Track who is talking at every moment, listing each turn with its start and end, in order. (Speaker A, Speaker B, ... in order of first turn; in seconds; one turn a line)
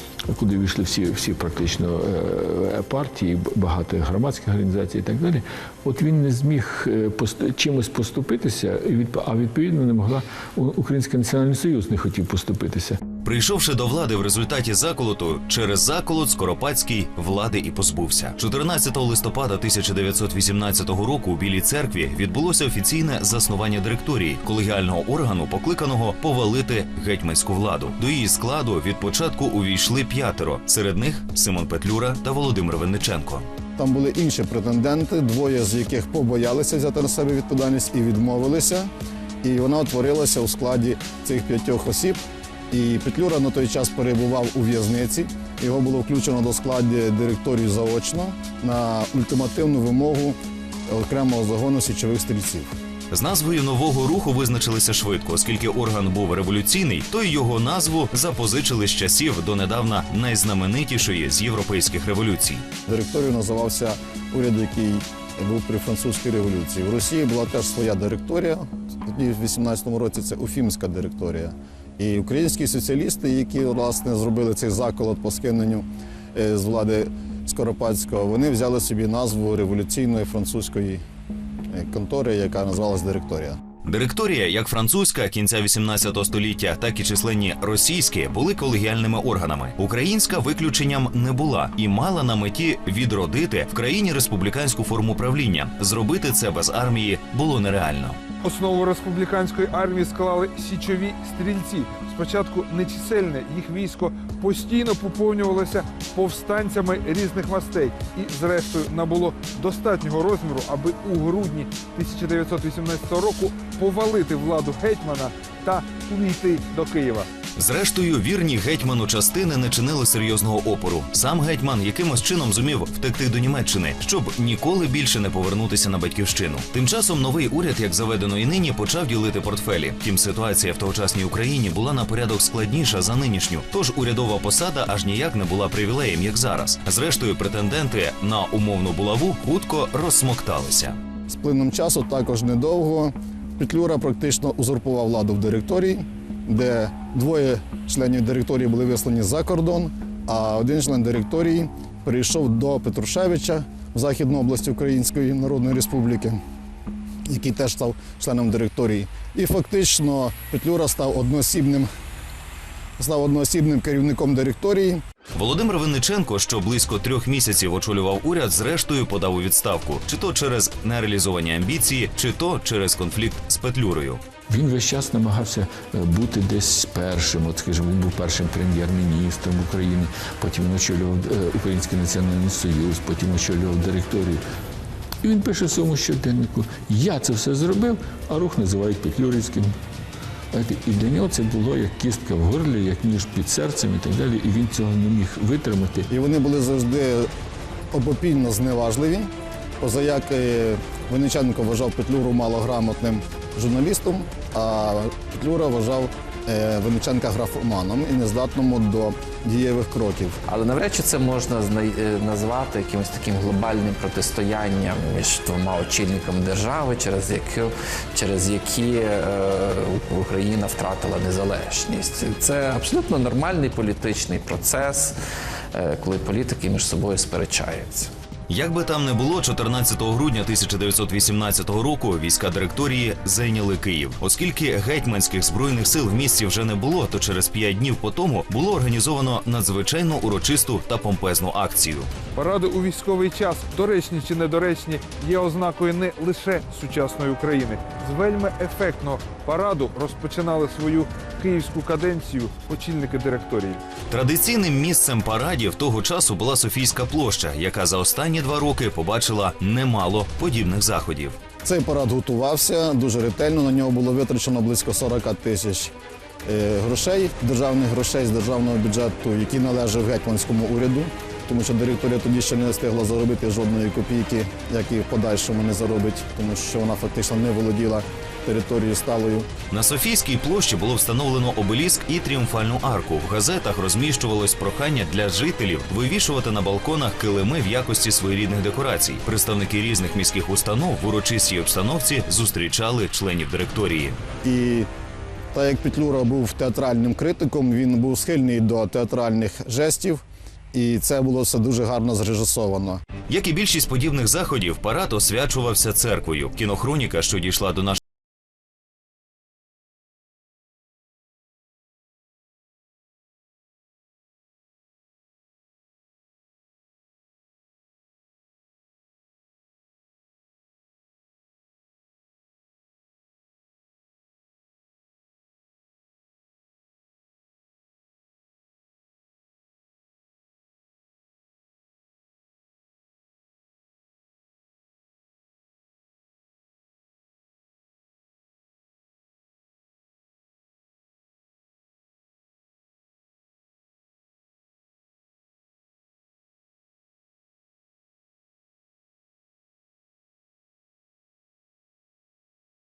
Speaker A: 0.3-13.0
Speaker B: 13.2-33.5
Speaker C: 33.8-38.9
Speaker C: 39.4-50.4
Speaker C: 50.9-52.7
Speaker B: 53.1-62.6
Speaker C: 62.9-81.0
Speaker C: 81.7-83.6
Speaker B: 83.8-98.2
Speaker D: 98.4-117.3
Speaker B: 117.6-141.0
Speaker C: 141.3-156.4
Speaker C: 157.3-161.9
Speaker C: 163.0-165.0
Speaker B: 165.3-174.2
Speaker A: 174.5-184.4
Speaker A: 185.2-189.8
Speaker A: 190.5-196.1
Speaker C: 196.1-197.3
Speaker C: 197.9-210.4
Speaker E: 210.5-225.2
Speaker E: 225.7-228.1
Speaker B: 228.5-242.1
Speaker D: 242.4-253.8
Speaker B: 254.1-261.4
Speaker C: 261.6-265.9
Speaker C: 266.4-279.5
Speaker B: 279.7-294.2
Speaker C: 294.4-294.9
Speaker C: 295.5-303.0
Speaker B: 303.3-308.0